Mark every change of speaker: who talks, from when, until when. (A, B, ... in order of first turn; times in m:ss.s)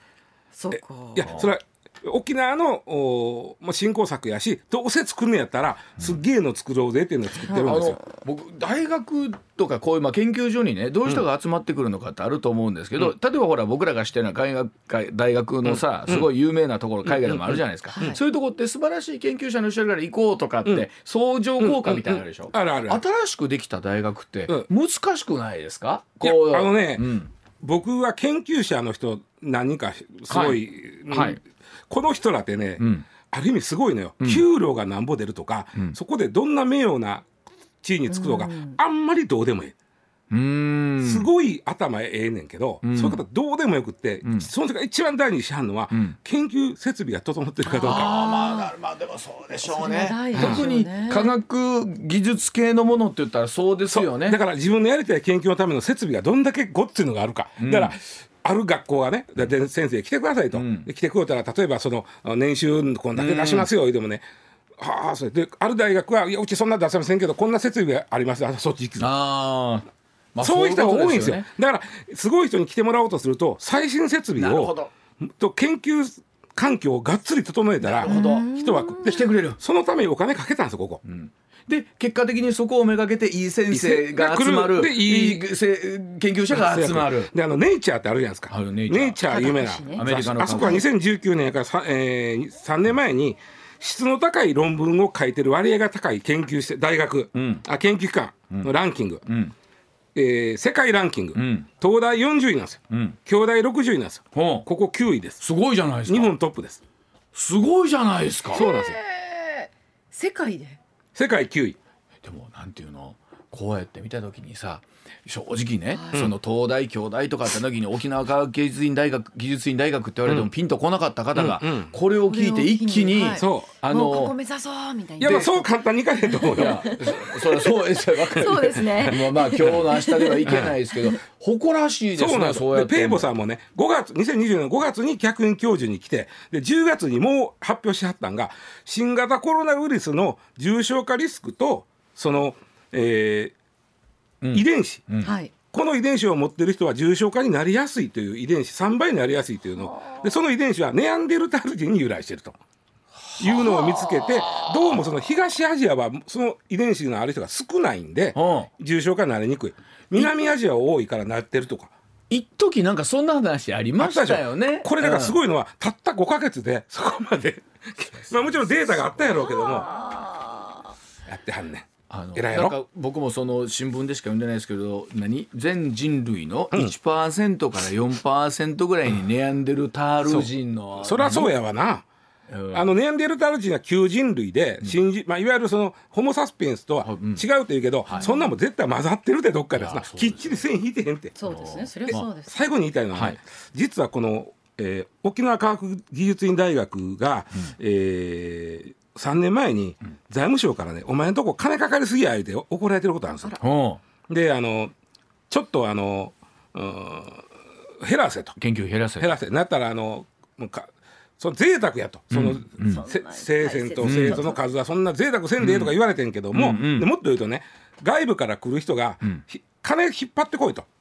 0:00.5-0:01.3 A
0:00.7-0:08.0 B
0:01.3-0:01.5 C
0:07.5-0:07.8 A
0:07.5-0:27.3 C
0:15.6-0:16.3 B
0:17.0-0:18.2 B
0:17.9-0:18.2 A
0:21.6-0:23.0 B
0:26.2-0:37.3 B
0:30.3-0:31.4 C
0:32.8-0:33.1 C
0:37.8-0:39.8 B
0:38.1-0:38.8 A
0:40.3-0:41.3 C
0:41.0-0:48.1 B
0:42.8-0:43.2 C
0:44.2-0:44.5 C
0:45.9-0:46.2 C
0:47.7-0:48.7 A
0:47.8-0:54.4 C
0:49.6-0:51.3 A
0:50.4-0:50.6 B
0:53.9-1:04.2 B
0:57.6-0:58.0 C
1:00.5-1:00.9 C
1:03.2-1:03.7 C
1:04.8-1:09.1 B
1:09.0-1:11.5 C
1:10.4-1:21.0 B
1:14.4-1:14.9 C
1:17.8-1:18.5 C
1:18.0-1:19.3 A
1:19.0-1:19.6 C
1:21.0-1:27.3 C
1:23.7-1:25.5 B
1:26.5-1:39.2 B
1:28.5-1:29.2 C
1:29.2-1:30.8 A
1:30.0-1:30.8 C
1:37.3-1:37.6 C
1:39.3-1:39.6 C
1:40.2-1:45.4 B
1:41.4-1:41.7 C
1:42.9-1:43.2 C
1:44.3-1:44.7 C
1:45.4-1:46.3 C
1:46.1-1:46.8 B
1:47.3-1:48.7 C
1:48.5-1:49.0 B
1:48.5-1:50.8 A
1:51.2-1:51.8 B
1:52.2-2:04.4 C
1:55.9-1:56.2 A
2:01.3-2:01.9 B
2:02.2-2:11.2 A
2:03.3-2:03.7 B
2:05.2-2:07.0 B
2:05.2-2:05.5 C
2:06.5-2:13.3 C
2:10.4-2:10.8 B
2:12.2-2:23.5 B
2:24.4-2:25.3 C
2:24.5-2:25.1 B
2:25.2-2:25.5 A
2:25.7-2:32.6 B
2:33.2-2:35.1 C
2:33.4-2:41.9 B
2:38.4-2:38.7 C
2:42.3-2:45.4 C
2:44.0-2:50.0 B
2:48.1-2:49.6 C
2:49.6-2:50.5 A
2:51.3-2:52.8 B
2:52.1-3:01.5 C
3:00.2-3:02.0 B
3:02.5-3:02.9 C
3:02.7-3:11.4 B
3:07.0-3:07.4 C
3:08.1-3:08.5 A
3:09.8-3:10.6 C
3:11.4-3:12.6 A
3:11.5-3:12.3 C
3:12.1-3:23.6 B
3:23.6-3:24.0 C
3:24.3-3:24.9 B
3:25.5-3:27.5 B
3:28.0-3:28.6 B
3:28.6-3:29.4 C
3:29.2-3:40.9 B
3:32.3-3:33.1 C
3:32.8-3:34.6 A
3:34.0-3:34.4 C
3:35.6-3:36.0 C
3:36.5-3:37.1 C